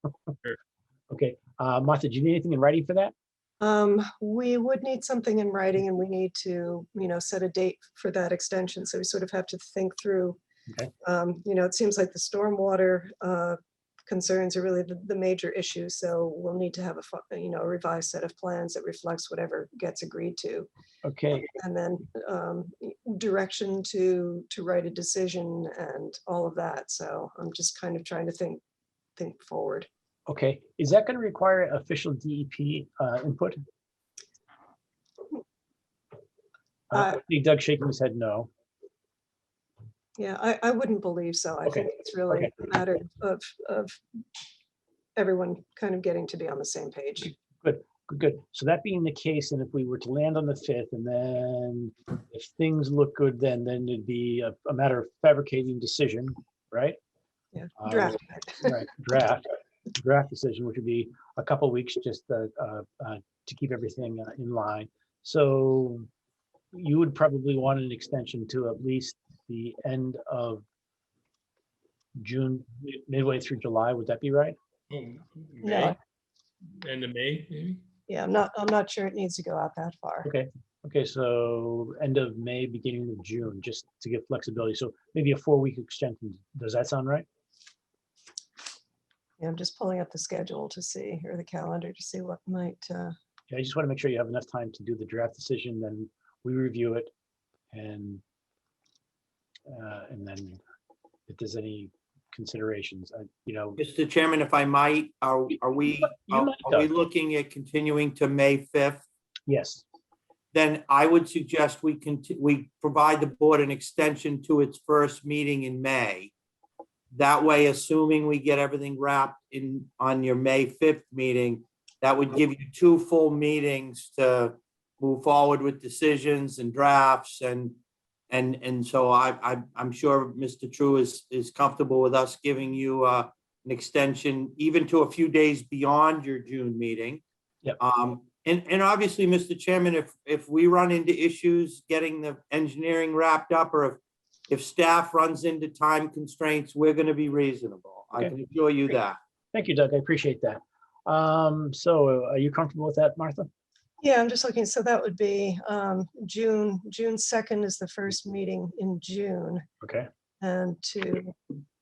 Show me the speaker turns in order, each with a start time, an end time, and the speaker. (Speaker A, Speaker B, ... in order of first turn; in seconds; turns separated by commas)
Speaker A: 1.1-3.1, Speaker B: 3.6-10.4, Speaker B: 11.0-20.7, Speaker A: 21.0-21.5, Speaker B: 21.6-28.6, Speaker B: 29.2-29.9, Speaker A: 30.3-33.6, Speaker A: 36.9-38.5, Speaker B: 36.9-37.2, Speaker B: 40.2-44.0, Speaker A: 41.6-42.5, Speaker B: 45.1-47.3, Speaker A: 47.2-57.0, Speaker B: 57.5-58.8, Speaker A: 57.8-59.4, Speaker A: 60.0-66.1, Speaker A: 66.7-70.6, Speaker A: 72.2-74.5, Speaker C: 74.9-76.0, Speaker B: 75.6-76.0, Speaker C: 76.8-77.8, Speaker B: 78.1-80.3, Speaker A: 80.2-87.2, Speaker B: 89.4-93.1, Speaker A: 93.5-97.1, Speaker A: 97.7-98.2, Speaker A: 99.7-100.6, Speaker A: 101.3-103.8, Speaker D: 103.8-109.0, Speaker A: 106.2-106.9, Speaker A: 109.5-109.8, Speaker D: 110.5-116.3, Speaker D: 117.1-127.8, Speaker D: 128.3-137.2, Speaker D: 137.8-149.2, Speaker A: 149.5-153.5, Speaker B: 154.0-159.6, Speaker A: 159.8-160.1, Speaker B: 160.4-161.3